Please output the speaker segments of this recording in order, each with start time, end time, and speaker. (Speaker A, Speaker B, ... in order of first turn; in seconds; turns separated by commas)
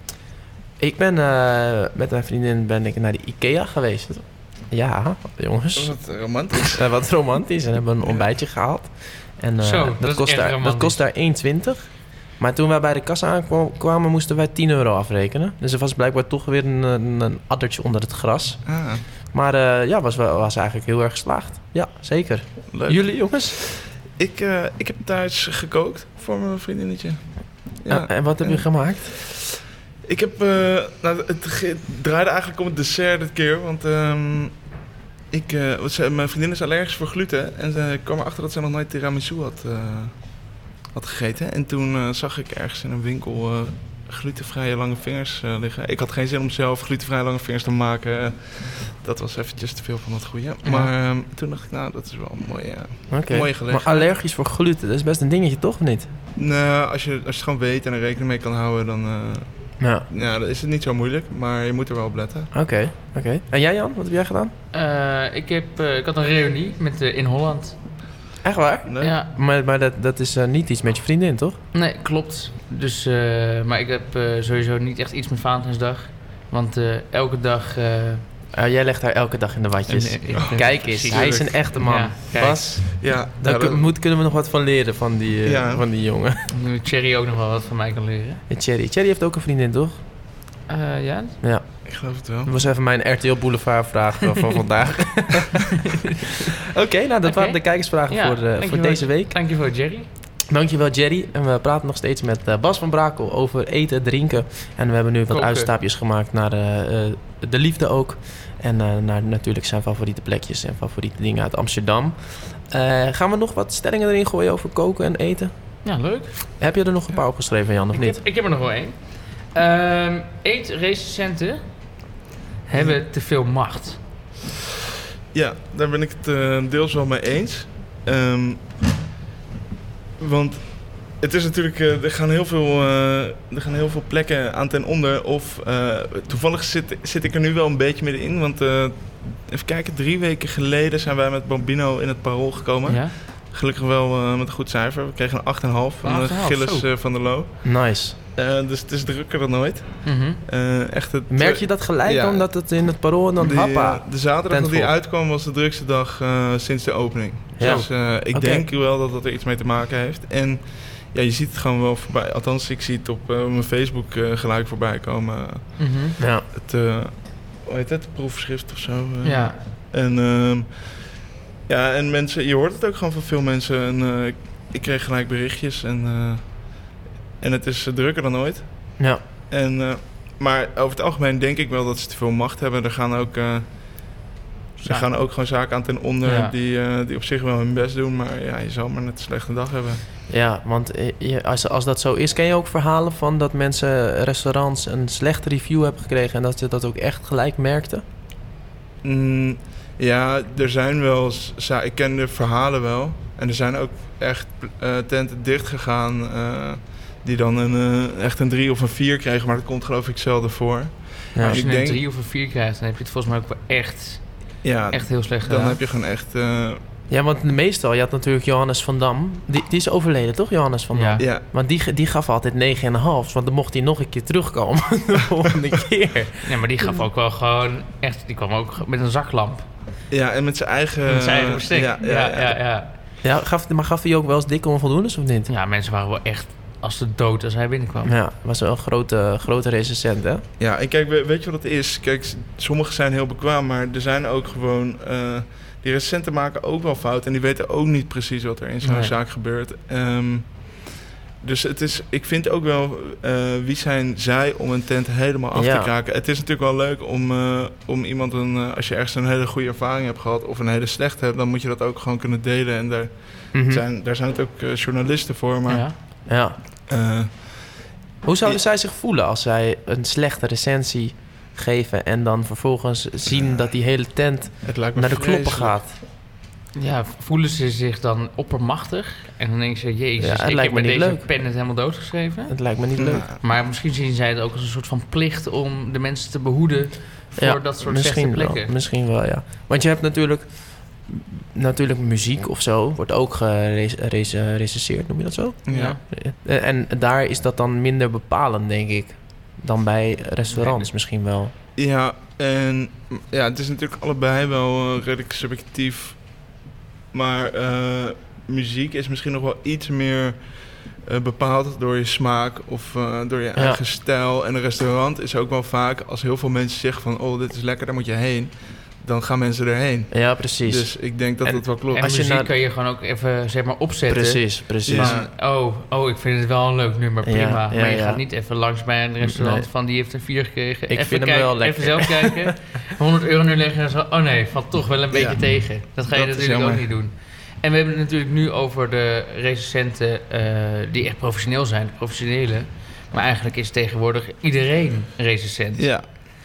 Speaker A: 0.8-6.0, Speaker B: 5.8-6.8, Speaker A: 6.7-23.6, Speaker B: 8.0-8.3, Speaker C: 9.6-11.0, Speaker B: 18.7-19.0, Speaker B: 22.7-29.5, Speaker A: 27.9-29.1, Speaker B: 30.0-34.7, Speaker B: 35.3-54.1, Speaker C: 50.6-50.9, Speaker A: 53.1-56.1, Speaker B: 56.4-62.5, Speaker A: 59.8-60.1, Speaker A: 62.5-64.5, Speaker C: 64.7-67.8, Speaker A: 68.4-71.6, Speaker B: 68.9-69.1, Speaker C: 69.0-69.3, Speaker C: 71.7-78.2, Speaker A: 78.5-86.5, Speaker C: 79.9-82.8, Speaker B: 80.3-81.6, Speaker B: 83.0-83.8, Speaker B: 85.5-85.8, Speaker C: 86.5-88.4, Speaker A: 88.5-90.0, Speaker C: 90.7-91.4, Speaker A: 91.4-95.7, Speaker B: 91.9-92.5, Speaker A: 96.7-99.3, Speaker C: 97.2-100.1, Speaker A: 100.5-115.8, Speaker C: 105.3-105.7, Speaker C: 115.8-116.4, Speaker A: 116.6-118.2, Speaker C: 117.9-121.6, Speaker C: 122.7-124.0, Speaker B: 122.7-123.0, Speaker B: 125.3-128.8, Speaker B: 130.2-152.5, Speaker C: 142.9-143.2, Speaker C: 146.0-146.9, Speaker A: 147.6-148.2, Speaker C: 150.0-150.4, Speaker A: 151.3-154.9, Speaker B: 153.4-184.2, Speaker A: 157.6-158.7, Speaker C: 157.6-157.9, Speaker C: 165.8-166.2, Speaker A: 166.2-166.4, Speaker C: 169.2-169.6, Speaker C: 184.8-185.1, Speaker B: 184.8-190.0, Speaker C: 186.2-186.5, Speaker A: 190.3-198.0, Speaker B: 199.0-212.0, Speaker A: 211.3-211.6, Speaker C: 211.5-215.8, Speaker B: 214.6-216.8, Speaker A: 217.1-227.1, Speaker C: 220.9-221.2, Speaker B: 221.2-221.4, Speaker C: 226.5-229.7, Speaker B: 230.1-232.6, Speaker C: 231.1-232.9, Speaker A: 233.2-235.5, Speaker C: 235.5-238.2, Speaker A: 238.0-240.4, Speaker B: 240.6-266.3, Speaker C: 248.8-249.2, Speaker A: 255.6-255.9, Speaker A: 263.5-263.8, Speaker C: 265.7-266.0, Speaker A: 266.3-266.6, Speaker B: 266.9-268.6, Speaker A: 268.2-276.0, Speaker B: 273.3-273.7, Speaker B: 274.6-275.8, Speaker C: 276.8-282.6, Speaker A: 280.2-281.3, Speaker A: 282.5-283.3, Speaker B: 283.0-283.4, Speaker C: 283.4-288.7, Speaker A: 287.4-301.5, Speaker B: 295.7-296.0, Speaker C: 295.7-296.0, Speaker C: 300.5-300.9, Speaker B: 301.8-306.5, Speaker B: 307.1-322.1, Speaker A: 313.6-313.8, Speaker A: 320.1-320.9, Speaker C: 321.5-346.0, Speaker A: 322.0-322.5, Speaker A: 324.1-325.2, Speaker B: 324.9-325.3, Speaker A: 327.2-328.2, Speaker A: 329.2-329.7, Speaker A: 330.9-332.4, Speaker B: 335.1-336.9, Speaker B: 345.8-346.1